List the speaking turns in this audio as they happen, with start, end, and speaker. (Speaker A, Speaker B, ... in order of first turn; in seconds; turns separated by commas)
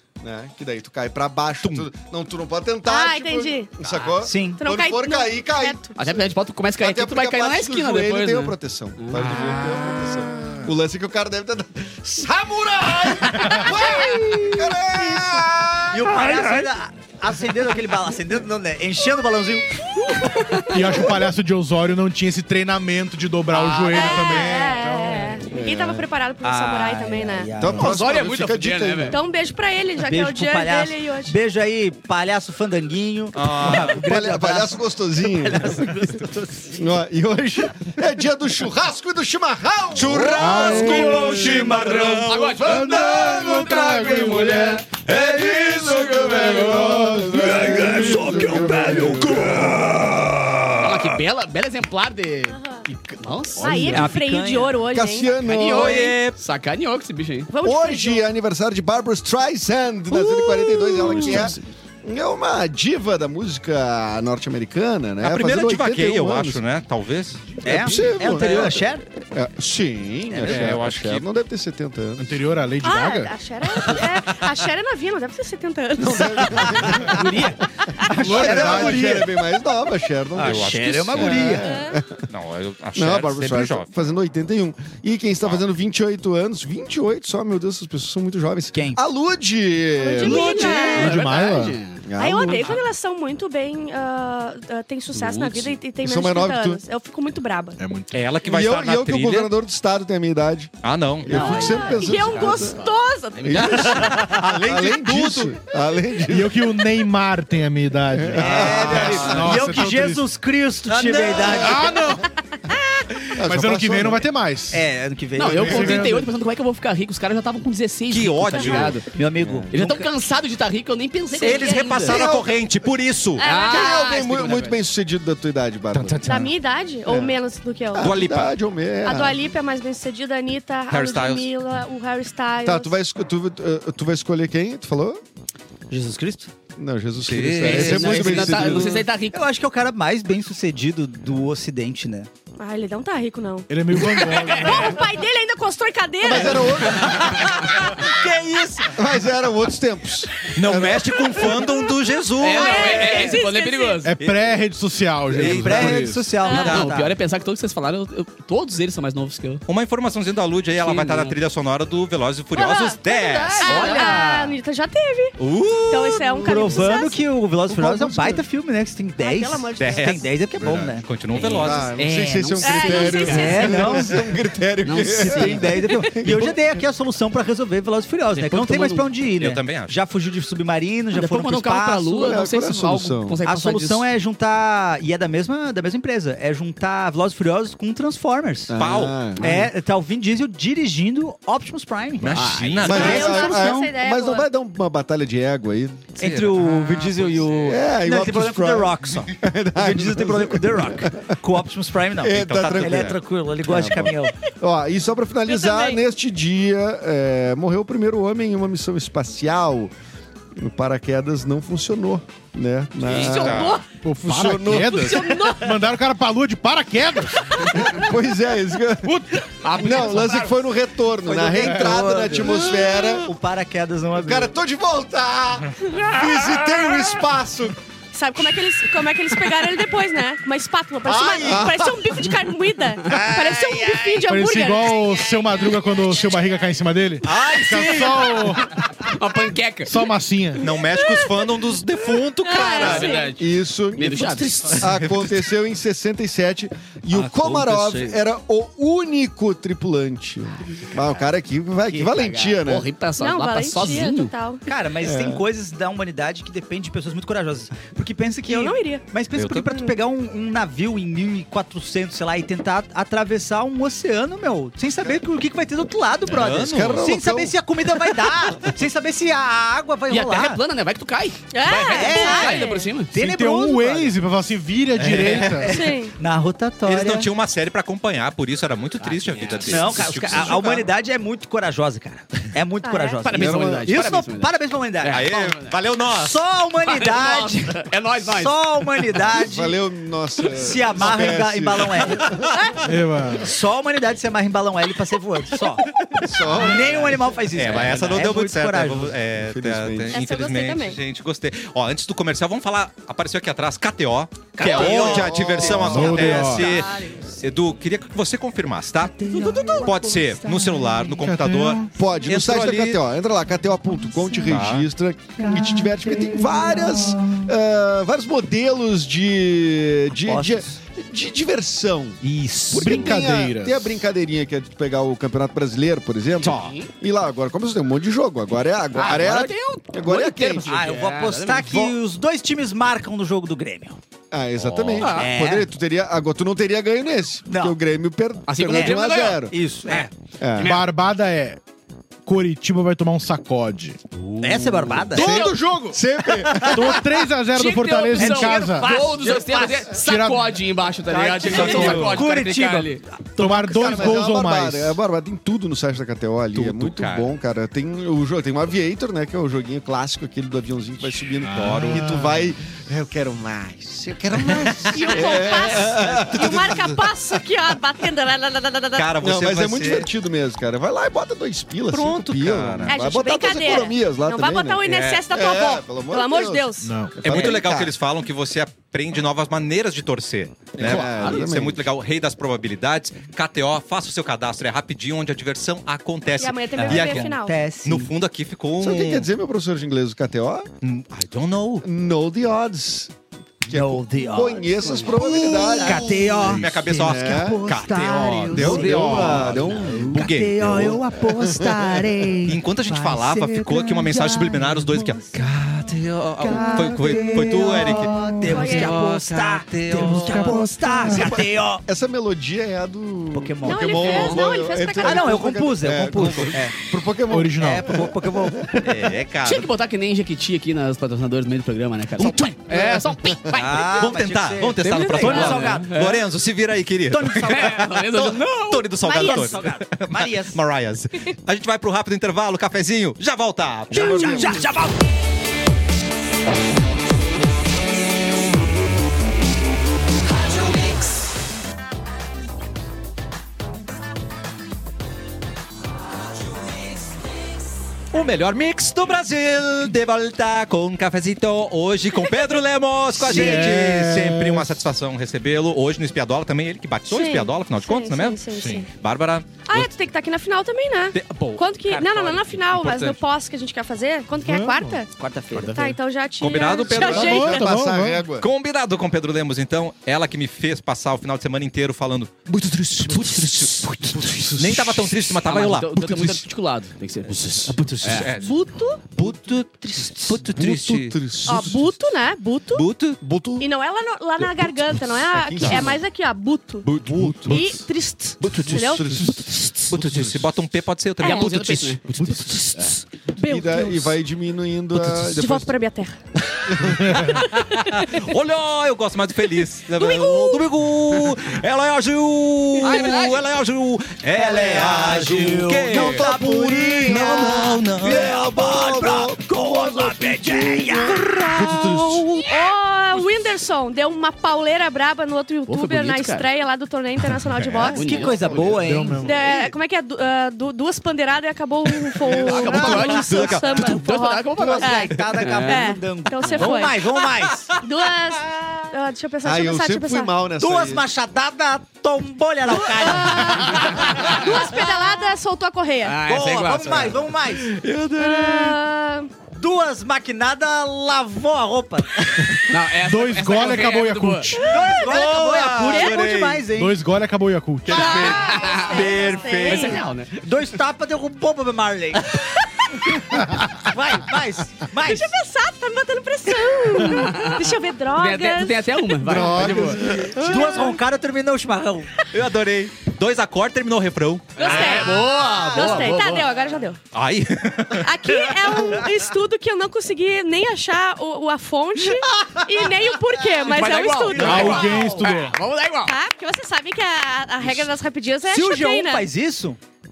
Speaker A: 0.2-6.3, Speaker B: 2.9-3.7, Speaker C: 4.2-4.6, Speaker B: 4.6-5.9, Speaker D: 6.0-9.4, Speaker A: 6.8-16.3, Speaker E: 9.2-9.6, Speaker B: 10.0-10.6, Speaker F: 13.4-13.7, Speaker C: 15.9-20.1, Speaker B: 20.1-21.1, Speaker F: 20.7-25.4, Speaker B: 23.9-27.5, Speaker C: 24.0-24.3, Speaker A: 25.5-26.1, Speaker C: 26.4-28.1, Speaker A: 27.6-29.2, Speaker D: 27.7-29.2, Speaker B: 29.1-31.4, Speaker C: 30.0-36.9, Speaker E: 33.4-34.0, Speaker A: 33.6-35.9, Speaker A: 36.7-41.4, Speaker E: 39.9-46.4, Speaker F: 40.4-45.0, Speaker C: 40.6-41.5, Speaker D: 42.3-43.0, Speaker A: 46.0-49.8, Speaker F: 46.1-49.2, Speaker C: 47.6-49.9, Speaker E: 48.0-48.8, Speaker D: 50.8-54.1, Speaker B: 53.6-56.2, Speaker C: 53.9-54.8, Speaker A: 54.9-56.1, Speaker D: 55.5-57.5, Speaker E: 55.8-56.3, Speaker B: 57.5-58.2, Speaker A: 57.6-66.6, Speaker B: 60.3-61.5, Speaker D: 61.0-61.6, Speaker E: 65.2-67.6, Speaker C: 67.6-69.0, Speaker A: 67.6-72.4, Speaker C: 70.3-70.8, Speaker E: 70.4-71.3, Speaker F: 72.2-73.3, Speaker B: 72.8-77.0, Speaker A: 76.0-77.5, Speaker C: 76.8-79.3, Speaker D: 77.1-77.6, Speaker F: 78.2-79.2, Speaker A: 78.2-82.3, Speaker C: 80.3-81.7, Speaker E: 80.4-81.6, Speaker B: 81.6-82.0, Speaker E: 82.3-83.9, Speaker A: 83.0-90.8, Speaker C: 88.7-89.0, Speaker B: 90.0-91.2, Speaker C: 90.2-91.1, Speaker D: 90.7-92.8, Speaker F: 90.7-91.8, Speaker A: 92.0-92.8, Speaker B: 92.2-97.8, Speaker A: 96.0-96.8, Speaker F: 97.8-98.3, Speaker E: 98.1-99.5, Speaker A: 98.4-102.8, Speaker E: 100.8-101.6, Speaker C: 101.3-102.0, Speaker B: 101.5-104.1, Speaker D: 101.8-104.1, Speaker A: 103.4-106.7, Speaker E: 103.5-105.6, Speaker F: 106.2-110.3, Speaker A: 108.1-109.5, Speaker C: 108.4-112.0, Speaker E: 108.5-109.7, Speaker E: 110.9-111.8, Speaker F: 111.5-112.3, Speaker A: 113.3-114.3, Speaker F: 113.5-114.8, Speaker C: 114.7-116.2, Speaker D: 115.4-119.1, Speaker F: 115.5-116.3, Speaker E: 118.1-119.0, Speaker C: 119.1-120.1, Speaker A: 119.4-119.7, Speaker D: 119.7-122.3, Speaker B: 121.3-122.1, Speaker E: 121.4-123.5, Speaker A: 122.0-122.5, Speaker B: 123.4-124.1, Speaker D: 123.4-124.8, Speaker A: 123.6-126.2, Speaker E: 125.9-126.5, Speaker B: 126.2-128.2, Speaker A: 127.1-127.4, Speaker A: 127.9-129.4, Speaker E: 128.0-128.5, Speaker B: 129.0-132.9, Speaker E: 130.9-131.5, Speaker A: 132.6-135.2, Speaker C: 135.9-136.5, Speaker A: 136.8-139.1, Speaker E: 137.2-138.8, Speaker D: 137.6-139.4, Speaker C: 138.7-142.3, Speaker B: 142.6-147.0, Speaker F: 143.7-145.0, Speaker A: 146.2-147.6, Speaker C: 146.8-149.0, Speaker A: 148.9-151.4, Speaker E: 150.6-153.3, Speaker B: 151.4-152.0, Speaker D: 152.4-154.1, Speaker B: 152.5-154.1, Speaker F: 154.0-156.4, Speaker E: 154.2-154.6, Speaker E: 155.3-157.0, Speaker C: 155.4-157.1, Speaker B: 156.4-156.8, Speaker D: 156.4-159.6, Speaker E: 159.7-164.0, Speaker D: 160.8-161.4, Speaker B: 162.5-167.2, Speaker D: 163.6-164.0, Speaker C: 163.6-164.6, Speaker E: 165.4-166.3, Speaker C: 166.4-171.1, Speaker A: 167.7-168.4, Speaker B: 169.2-170.2, Speaker E: 169.8-171.9, Speaker D: 171.3-173.8, Speaker A: 171.5-176.6, Speaker B: 172.6-173.9, Speaker C: 173.2-174.2, Speaker D: 174.8-175.8, Speaker C: 175.0-182.4, Speaker D: 178.3-179.1, Speaker E: 179.4-180.0, Speaker D: 181.1-184.1, Speaker A: 182.2-183.4, Speaker C: 183.5-188.8, Speaker A: 188.7-189.7, Speaker E: 188.8-189.5, Speaker C: 189.3-193.9, Speaker E: 192.2-193.5, Speaker D: 192.3-193.2, Speaker B: 192.8-194.5, Speaker A: 192.8-196.1, Speaker C: 196.2-204.3, Speaker E: 196.2-197.8, Speaker A: 197.6-201.4, Speaker A: 202.2-209.9, Speaker E: 202.3-203.2, Speaker B: 205.5-206.0, Speaker A: 210.6-213.7, Speaker E: 213.0-213.8, Speaker D: 213.1-213.4, Speaker B: 213.2-213.8, Speaker F: 213.9-217.5, Speaker A: 214.2-215.1, Speaker B: 214.8-215.8, Speaker B: 217.4-217.9, Speaker A: 217.7-223.3, Speaker F: 219.1-220.2, Speaker D: 219.6-220.7, Speaker C: 221.2-224.6, Speaker A: 224.2-227.8, Speaker B: 225.8-227.2, Speaker B: 228.1-235.2, Speaker A: 231.1-232.3, Speaker F: 234.3-238.8, Speaker E: 237.2-238.6, Speaker D: 239.0-240.0, Speaker F: 239.8-240.7, Speaker E: 240.6-243.2, Speaker B: 240.6-243.3, Speaker D: 242.6-244.9, Speaker A: 243.4-252.9, Speaker E: 244.7-245.5, Speaker E: 247.1-248.2, Speaker D: 251.9-254.3, Speaker B: 253.2-254.6, Speaker C: 254.7-270.6, Speaker A: 255.0-255.4, Speaker B: 258.5-259.0, Speaker E: 259.4-259.7, Speaker E: 266.3-267.1, Speaker A: 266.4-267.5, Speaker D: 270.1-273.1, Speaker B: 271.5-272.9, Speaker C: 271.7-274.2, Speaker F: 273.1-275.8, Speaker E: 274.9-275.7, Speaker C: 275.4-277.3, Speaker B: 275.6-276.1, Speaker E: 276.9-280.9, Speaker D: 279.0-280.2, Speaker C: 279.6-285.4, Speaker A: 280.2-280.8, Speaker B: 282.8-283.2, Speaker D: 283.2-284.6, Speaker A: 283.4-283.7, Speaker E: 285.0-286.4, Speaker D: 285.1-285.8, Speaker C: 286.0-289.8, Speaker D: 286.8-289.1, Speaker A: 289.3-292.5, Speaker C: 290.4-292.5, Speaker F: 292.8-293.5, Speaker C: 293.4-295.9, Speaker A: 296.2-297.2, Speaker C: 296.4-299.2, Speaker E: 297.5-313.0, Speaker A: 299.4-300.2, Speaker B: 300.1-301.0, Speaker C: 304.6-306.6, Speaker A: 304.6-306.3, Speaker F: 305.7-306.7, Speaker B: 306.4-307.2, Speaker B: 309.3-310.3, Speaker F: 311.1-311.9, Speaker A: 311.9-322.2, Speaker E: 314.4-314.9, Speaker C: 320.2-320.7, Speaker C: 322.2-323.1, Speaker A: 322.7-330.7, Speaker F: 322.7-324.0, Speaker D: 326.4-326.9, Speaker E: 326.4-326.7, Speaker D: 328.9-331.9, Speaker C: 330.7-334.0, Speaker A: 334.3-339.6, Speaker E: 334.6-335.1, Speaker D: 335.0-335.3, Speaker C: 335.1-335.7, Speaker C: 337.5-337.8, Speaker D: 338.5-340.1, Speaker C: 338.7-340.1, Speaker A: 340.4-340.8, Speaker D: 340.6-340.8, Speaker F: 340.6-341.6, Speaker F: 342.2-344.0, Speaker C: 344.4-345.6, Speaker F: 345.1-346.0, Speaker A: 345.2-346.9, Speaker C: 346.2-347.0, Speaker F: 346.6-349.0, Speaker D: 347.5-353.0, Speaker C: 348.2-350.0, Speaker F: 350.0-350.5, Speaker C: 351.1-354.1, Speaker F: 351.4-352.2, Speaker E: 351.5-352.2, Speaker F: 353.4-355.0, Speaker A: 353.6-367.0, Speaker E: 356.6-357.3, Speaker F: 361.4-362.4, Speaker E: 361.5-362.1, Speaker E: 364.3-367.1, Speaker B: 364.9-369.2, Speaker E: 368.9-370.1, Speaker A: 369.2-377.9, Speaker E: 371.9-373.0, Speaker B: 372.9-377.0, Speaker E: 374.8-375.2, Speaker F: 376.8-377.2, Speaker E: 377.2-389.3, Speaker C: 377.3-377.6, Speaker A: 380.8-381.8, Speaker D: 381.2-381.5, Speaker B: 386.4-387.6, Speaker C: 386.8-388.1, Speaker A: 388.8-390.7, Speaker E: 390.8-391.9, Speaker A: 391.8-393.1, Speaker A: 393.7-397.6, Speaker C: 393.7-404.9, Speaker E: 395.5-401.0, Speaker A: 398.5-400.3, Speaker F: 398.5-399.6, Speaker A: 401.2-402.2, Speaker E: 402.4-410.7, Speaker C: 406.4-411.8, Speaker B: 408.5-409.0, Speaker A: 410.8-418.9, Speaker C: 413.3-414.3, Speaker B: 413.6-415.5, Speaker D: 414.1-414.5, Speaker C: 415.0-416.8, Speaker F: 417.3-417.9, Speaker C: 417.6-419.1, Speaker E: 418.8-419.7, Speaker D: 419.4-424.2, Speaker E: 422.2-422.8, Speaker A: 422.7-423.3, Speaker C: 423.5-425.9, Speaker E: 423.5-434.6, Speaker D: 425.0-426.2, Speaker C: 427.1-427.9, Speaker D: 427.4-428.9, Speaker C: 428.9-430.6, Speaker B: 429.0-429.6, Speaker C: 433.9-435.0, Speaker A: 433.9-434.6, Speaker B: 434.0-434.5, Speaker E: 448.1-459.9, Speaker F: 453.2-454.8, Speaker B: 453.3-453.7, Speaker B: 457.1-458.9, Speaker F: 458.6-458.9, Speaker B: 459.6-465.1, Speaker E: 461.1-463.2, Speaker F: 464.4-465.0, Speaker C: 465.2-465.9, Speaker B: 465.6-467.6, Speaker E: 466.4-467.6, Speaker A: 466.9-468.5, Speaker F: 467.1-468.2, Speaker E: 468.4-476.4, Speaker D: 475.4-478.4, Speaker E: 477.4-481.2, Speaker B: 478.3-479.1, Speaker B: 479.8-480.4, Speaker A: 480.5-482.0, Speaker B: 481.4-482.9, Speaker E: 482.7-483.2, Speaker A: 483.2-483.7, Speaker B: 483.6-486.9, Speaker A: 484.4-486.0, Speaker E: 485.6-485.9, Speaker A: 486.8-487.8, Speaker E: 487.0-487.8, Speaker B: 487.4-490.0, Speaker E: 488.4-489.3, Speaker A: 488.4-490.5, Speaker E: 489.9-492.5, Speaker B: 491.2-491.5, Speaker D: 491.2-492.9, Speaker B: 492.3-494.1, Speaker A: 493.4-495.7, Speaker B: 495.1-496.2, Speaker A: 496.7-497.2, Speaker E: 496.8-508.6, Speaker F: 497.0-497.3, Speaker B: 497.4-498.2, Speaker B: 499.9-500.7, Speaker D: 502.8-503.5, Speaker B: 502.8-503.1, Speaker C: 504.3-511.5, Speaker A: 505.9-512.4, Speaker B: 511.6-518.2, Speaker D: 515.7-516.5, Speaker E: 517.4-518.0, Speaker D: 517.9-518.8, Speaker C: 518.0-519.4, Speaker A: 518.3-518.8, Speaker F: 518.8-519.5, Speaker B: 519.2-530.3, Speaker D: 522.2-525.9, Speaker E: 522.3-524.0, Speaker C: 522.7-523.1, Speaker C: 524.6-527.7, Speaker A: 529.4-531.0, Speaker C: 530.6-534.4, Speaker B: 532.7-536.2, Speaker D: 533.8-534.3, Speaker D: 536.0-537.3, Speaker C: 536.2-537.7, Speaker E: 537.6-538.8, Speaker B: 538.2-539.3, Speaker C: 539.5-542.3, Speaker F: 542.6-544.6, Speaker D: 542.7-544.6, Speaker B: 544.5-545.2, Speaker C: 544.6-547.0, Speaker E: 545.0-546.6, Speaker B: 545.9-546.3, Speaker F: 546.7-548.1, Speaker E: 547.9-549.8, Speaker B: 547.9-550.0, Speaker C: 548.0-552.4, Speaker D: 548.2-549.1, Speaker D: 549.6-550.4, Speaker C: 553.0-555.3, Speaker B: 555.0-559.6, Speaker D: 557.0-560.0, Speaker A: 559.2-560.6, Speaker C: 560.3-562.1, Speaker B: 560.3-561.0, Speaker E: 562.3-565.0, Speaker D: 564.6-566.6, Speaker B: 564.6-567.0, Speaker C: 564.7-565.9, Speaker E: 567.1-568.6, Speaker B: 568.0-575.3, Speaker D: 573.6-576.2, Speaker C: 574.3-575.3, Speaker F: 574.4-575.6, Speaker B: 576.0-579.3, Speaker C: 578.5-579.8